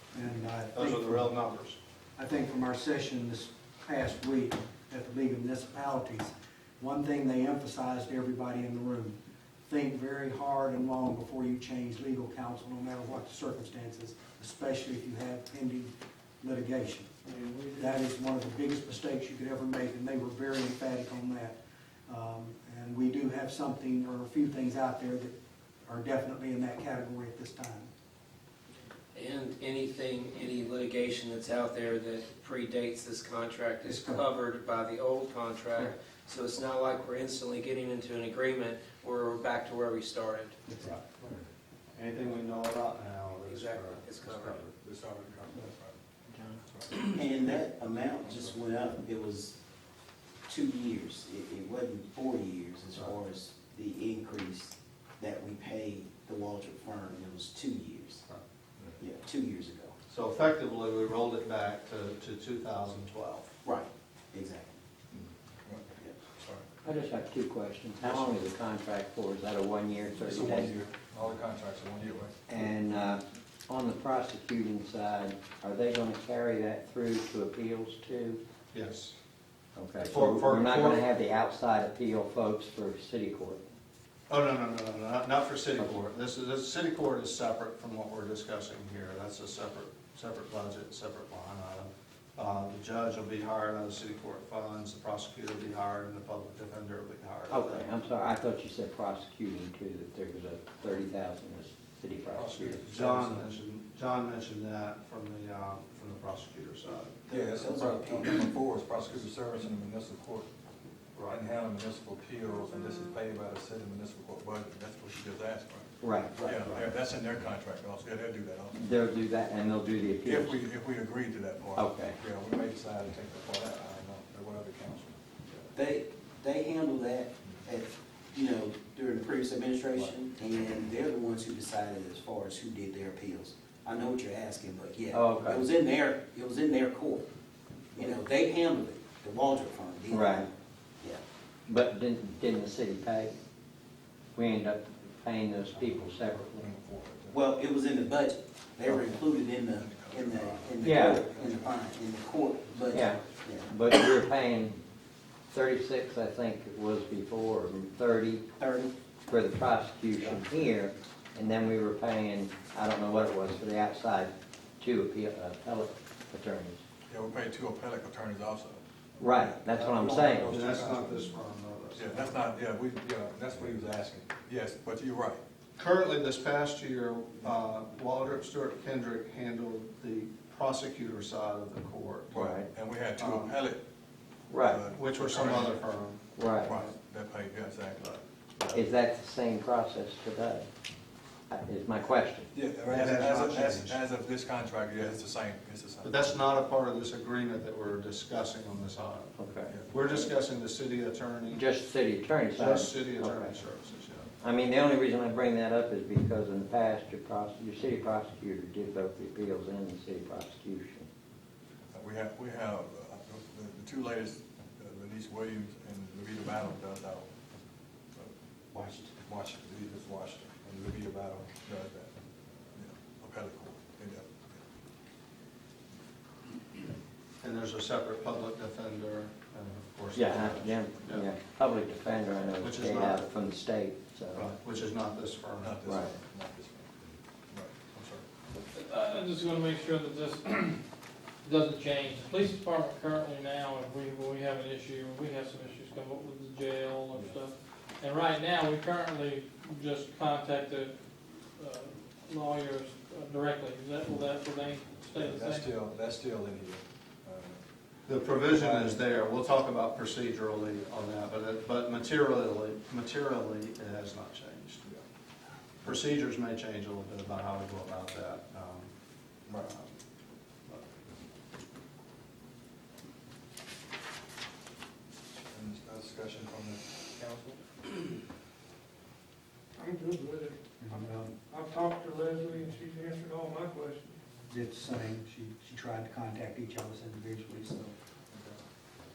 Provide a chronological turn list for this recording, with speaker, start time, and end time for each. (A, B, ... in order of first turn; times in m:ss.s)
0:00.1-0:01.3 A
0:00.7-0:01.8 B
0:02.2-0:17.1 A
0:17.2-0:18.0 C
0:17.7-0:21.6 A
0:22.1-0:25.3 A
0:25.9-0:27.9 A
0:29.1-0:40.6 D
0:33.8-0:34.3 A
0:40.7-0:41.0 A
0:42.0-0:44.7 B
0:43.5-0:44.6 D
0:44.8-0:46.0 E
0:46.3-0:46.6 F
0:46.7-0:47.2 E
0:47.0-0:49.6 G
0:48.2-0:48.6 E
0:50.5-0:58.2 G
0:59.0-1:00.0 G
1:00.1-1:03.5 B
1:03.6-1:04.8 G
1:05.1-1:06.7 E
1:06.8-1:10.7 F
1:08.0-1:08.4 E
1:10.2-1:12.3 E
1:12.5-1:18.4 F
1:18.7-1:19.1 B
1:19.8-1:23.6 F
1:20.0-1:21.0 B
1:24.3-1:37.8 B
1:37.5-1:42.8 F
1:42.3-1:43.4 E
1:42.9-1:47.2 B
1:47.3-1:50.5 E
1:47.3-1:48.5 G
1:51.2-1:51.4 B
1:51.3-1:55.9 E
1:56.0-1:56.3 F
1:56.4-1:56.9 G
1:56.4-1:58.9 E
1:58.7-2:00.6 F
2:00.2-2:05.1 E
2:01.7-2:02.2 F
2:05.7-2:17.2 G
2:15.1-2:15.6 F
2:17.9-2:21.2 G
2:20.1-2:20.4 F
2:21.7-2:23.4 F
2:24.3-2:26.4 F
2:25.7-2:27.4 E
2:27.3-2:33.7 G
2:28.8-2:31.9 E
2:30.8-2:31.2 F
2:32.7-2:33.4 E
2:32.9-2:34.7 F
2:35.5-2:38.5 F
2:38.6-2:38.9 G
2:39.3-2:46.8 F
2:47.1-2:51.3 E
2:49.2-2:50.5 F
2:49.7-2:52.4 B
2:51.9-2:55.4 E
2:55.8-3:02.4 B
3:02.3-3:03.8 E
3:02.3-3:02.7 F
3:03.2-3:03.5 B
3:04.5-3:04.8 F
3:04.6-3:05.8 E
3:04.8-3:06.9 B
3:06.4-3:06.7 F
3:06.6-3:08.0 E
3:08.6-3:08.8 E
3:08.7-3:10.7 F
3:11.5-3:12.5 F
3:12.5-3:16.4 E
3:12.9-3:13.9 B
3:16.0-3:19.3 B
3:19.4-3:20.2 F
3:19.9-3:21.6 B
3:21.5-3:23.5 F
3:22.6-3:24.3 B
3:24.4-3:31.1 F
3:31.9-3:37.3 E
3:38.7-3:39.1 G
3:39.2-3:42.1 E
3:42.7-3:44.6 E
3:47.4-3:51.3 B
3:50.1-3:54.5 F
3:52.6-3:53.3 B
3:54.3-3:55.8 B
3:55.6-3:56.9 E
3:55.8-3:56.1 F
3:57.5-3:58.2 E
3:58.5-4:00.8 H
4:01.4-4:11.0 H
4:07.1-4:07.4 E
4:11.6-4:15.7 H
4:15.0-4:17.6 E
4:18.1-4:24.9 B
4:18.4-4:19.0 E
4:25.8-4:28.9 B
4:29.5-4:30.0 B
4:35.5-4:37.6 E
4:39.8-4:44.2 C
4:40.8-4:41.3 A
4:44.5-4:47.9 A
4:48.3-4:48.6 E